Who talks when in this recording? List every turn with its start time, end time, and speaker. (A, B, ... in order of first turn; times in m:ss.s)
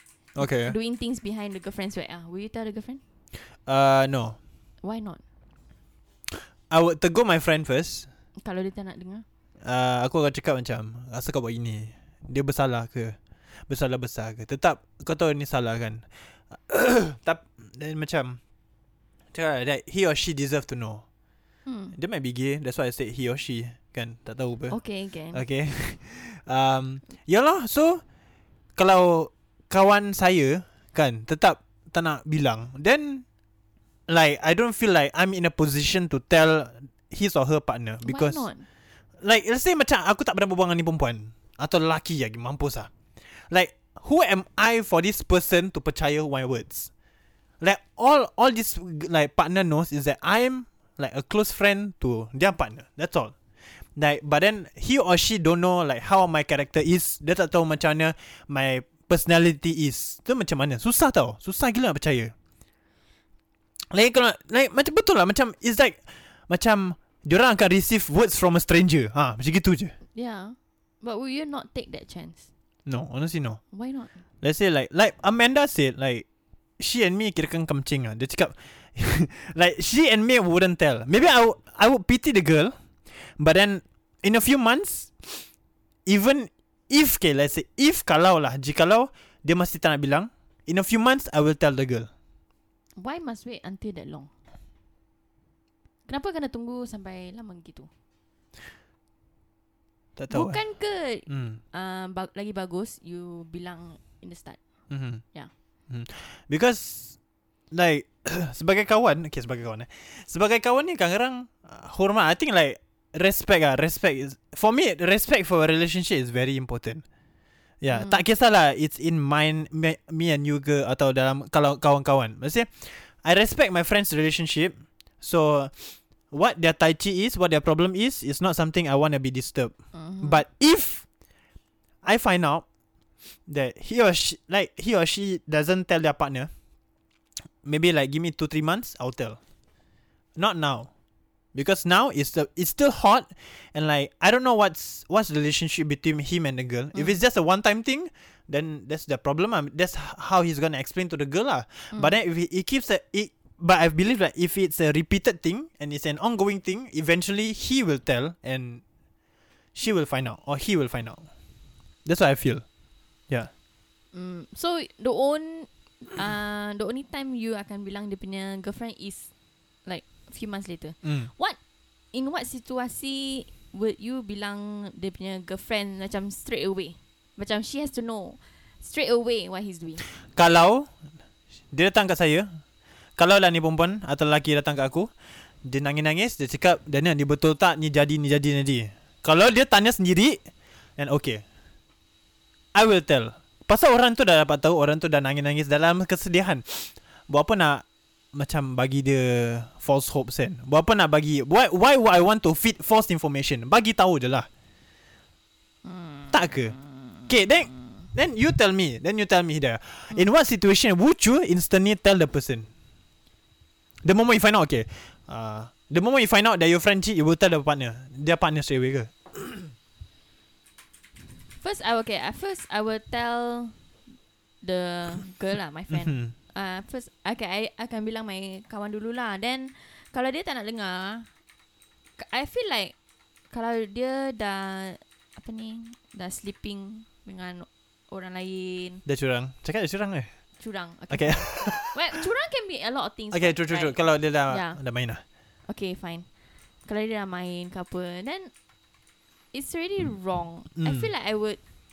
0:00.4-0:00.8 A
0:00.4-0:03.0 B
0:03.7-0:04.4 A
0:04.8-0:05.2 B
0:06.3-0:08.1 A
0:08.4-0:09.2 B
0:09.6-0:13.2 A
0:13.7-0:18.4 A
0:19.3-0:21.0 A
0:21.7-0:22.0 B
0:21.9-0:24.8 A
0:24.7-0:25.4 B
0:25.3-0:28.0 A
0:28.8-0:33.2 A
0:34.1-0:38.5 A
0:38.0-0:38.7 B
0:39.2-0:46.9 A
0:47.6-0:53.3 A
0:54.0-1:02.3 A
1:03.9-1:09.9 A
1:10.1-1:12.5 B
1:12.9-1:13.6 A
1:13.7-1:14.2 B
1:14.4-1:16.3 A
1:16.8-1:25.5 A
1:26.1-1:32.1 A
1:33.0-1:34.3 B
1:36.1-1:37.9 B
1:40.2-1:40.6 A
1:40.3-1:44.6 B
1:41.3-1:41.6 A
1:44.9-1:45.2 A
1:45.9-1:47.2 A
1:47.7-1:57.0 A
1:57.8-2:11.0 A
1:57.9-1:58.2 B
2:09.9-2:10.4 B
2:12.0-2:12.6 A
2:13.5-2:16.5 A
2:17.6-2:19.4 A
2:20.4-2:20.9 A
2:21.5-2:38.8 A
2:39.8-2:41.3 A
2:42.1-2:42.6 A
2:44.1-2:49.3 B
2:49.9-2:51.6 B
2:51.0-2:51.3 A
2:52.1-3:00.0 B
3:00.3-3:00.9 A
3:01.7-3:02.5 A
3:03.2-3:05.1 A
3:05.6-3:10.4 A
3:11.0-3:11.4 A
3:12.7-3:24.5 A
3:25.8-3:28.0 B
3:26.3-3:26.8 A
3:27.3-3:32.7 A
3:34.0-3:39.7 A
3:41.6-3:43.8 B
3:44.6-3:51.3 B
3:45.9-3:46.3 A
3:52.2-3:52.9 B
3:53.5-3:59.0 B
3:59.1-4:00.3 A
4:00.6-4:04.8 B
4:01.1-4:02.2 A
4:03.3-4:05.2 A
4:05.7-4:06.3 B
4:06.8-4:08.5 B
4:09.5-4:11.6 B
4:10.8-4:11.1 A